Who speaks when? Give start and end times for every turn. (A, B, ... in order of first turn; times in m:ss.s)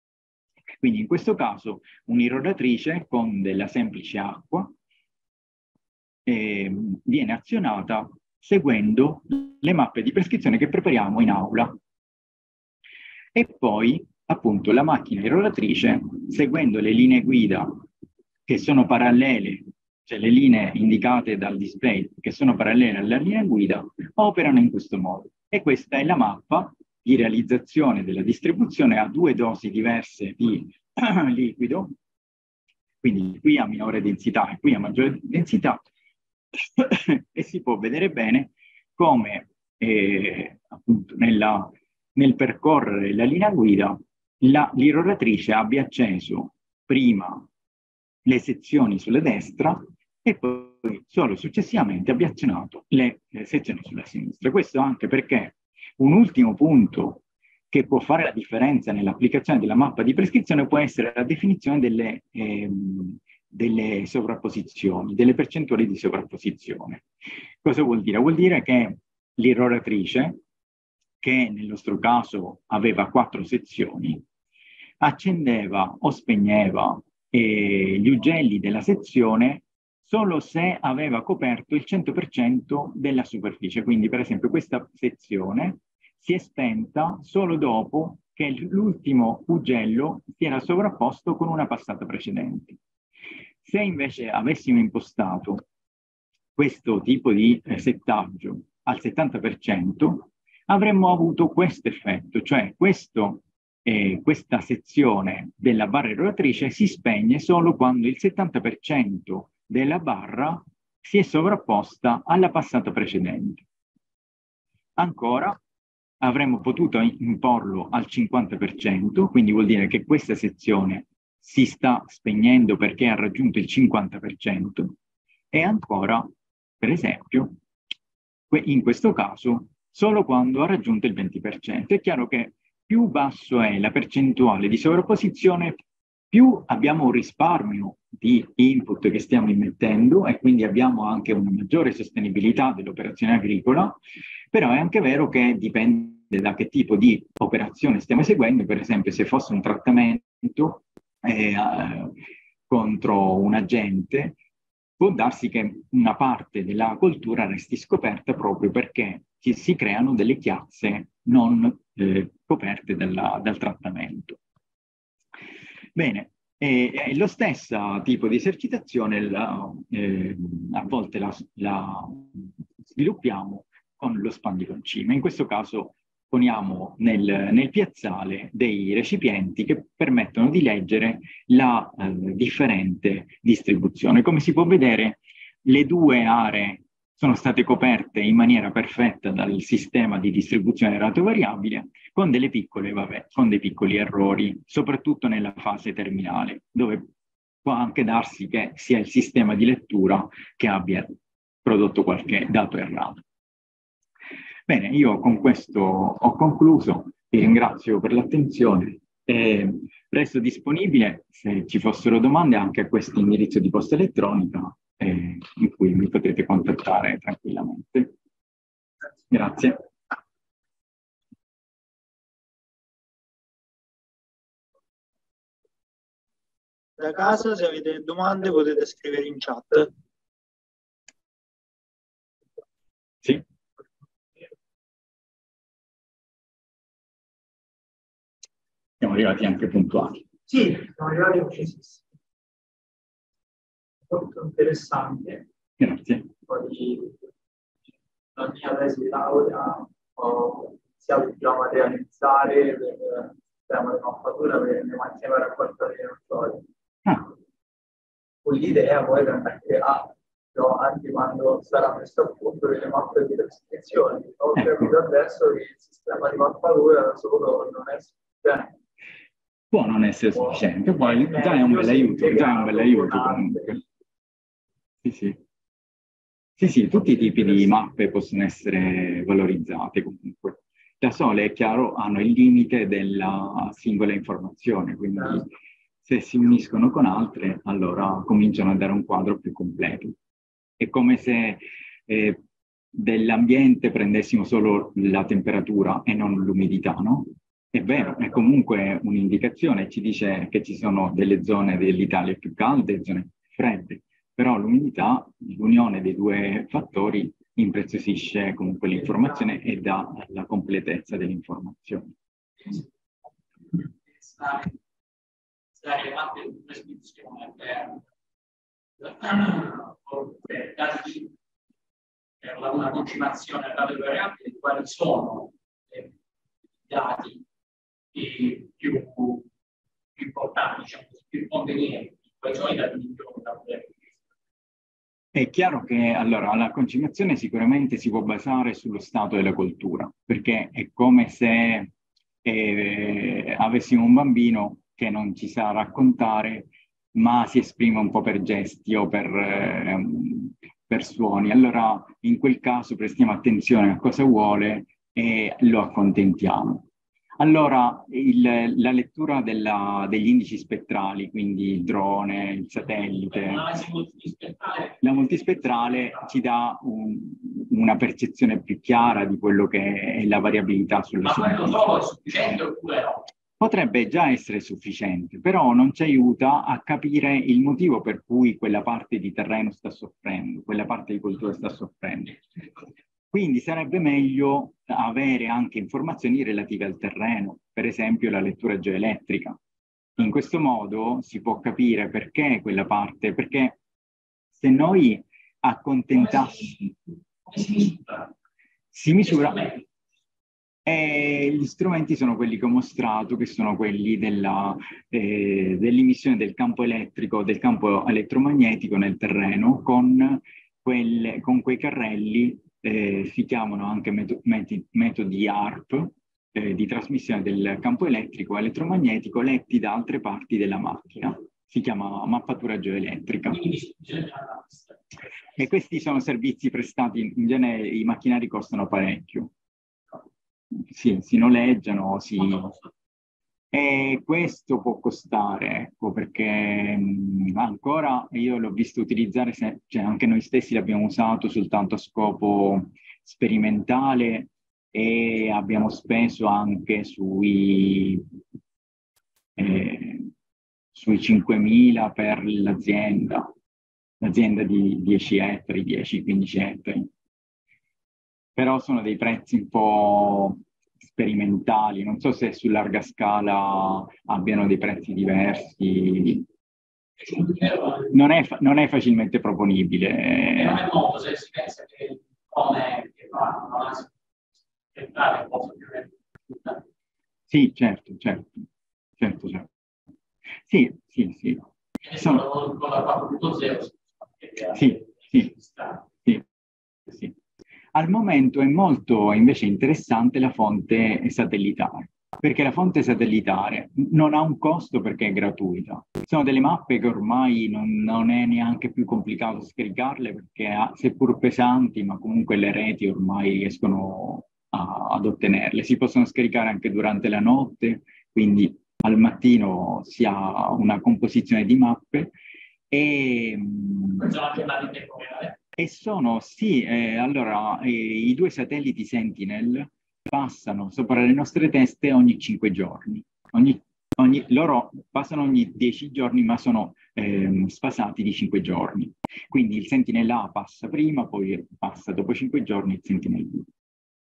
0:00.8-0:04.7 A
0:06.2-0:11.7 A
0:13.3-0:17.8 A
0:18.5-0:31.9 A
0:33.0-0:35.8 A
0:36.6-0:47.5 A
0:48.2-1:07.0 A
1:07.6-1:10.4 A
1:11.2-1:14.2 A
1:15.0-1:32.8 A
1:33.6-1:35.6 A
1:36.6-1:53.6 A
1:55.0-1:55.6 A
1:56.2-2:05.0 A
2:05.5-2:06.3 A
2:06.8-2:07.6 A
2:08.5-2:15.8 A
2:16.3-2:24.0 A
2:24.5-2:32.1 A
2:32.7-2:34.4 A
2:35.0-2:44.4 A
2:46.0-3:17.0 A
3:17.6-3:23.2 A
3:24.7-3:38.1 A
3:39.3-3:39.8 A
3:47.0-3:49.9 B
3:59.0-4:00.3 A
4:00.5-4:02.0 B
4:04.1-4:05.4 B
4:05.8-4:06.3 A
4:06.5-4:07.2 B
4:08.4-4:16.6 B
4:18.4-4:28.7 B
4:24.6-4:24.8 A
4:29.7-4:33.8 A
4:30.5-4:33.8 B
4:35.0-4:35.4 A
4:36.6-4:45.5 A
4:46.0-4:50.2 A
4:50.8-4:52.4 A
4:52.9-5:12.1 A
5:12.6-5:12.9 C
5:13.7-5:14.8 C
5:15.8-5:18.0 C
5:19.0-5:21.3 C
5:22.4-5:26.1 C
5:26.9-5:27.4 C
5:28.1-5:29.4 C
5:30.2-5:34.0 C
5:35.3-5:41.9 A
5:42.4-5:56.8 A
5:57.4-6:03.6 A
6:03.3-6:06.3 C
6:05.0-6:11.8 A
6:11.2-6:13.3 C
6:13.6-6:22.4 A
6:23.3-6:29.6 A
6:30.2-6:33.8 A
6:34.5-6:36.7 A
6:36.1-6:38.3 C
6:38.9-6:39.6 A
6:39.2-6:39.8 C
6:40.9-7:03.6 A
7:03.5-7:05.6 C
7:05.6-7:09.5 A
7:10.9-7:12.7 A
7:12.4-7:12.9 C
7:13.7-7:28.2 A
7:29.6-7:30.3 A
7:30.9-7:33.5 A
7:34.2-7:37.1 A
7:38.6-7:46.4 A
7:47.2-7:48.1 C
7:48.1-7:50.8 A
7:50.6-7:54.1 C
7:54.9-7:56.8 C
7:57.5-7:58.7 A
7:59.2-7:59.7 A
8:00.7-8:01.7 A
8:02.0-8:06.0 C
8:04.7-8:05.5 A
8:07.1-8:07.3 A
8:07.9-8:32.3 A
8:32.9-8:34.3 A
8:34.2-8:35.6 C
8:35.8-8:53.7 A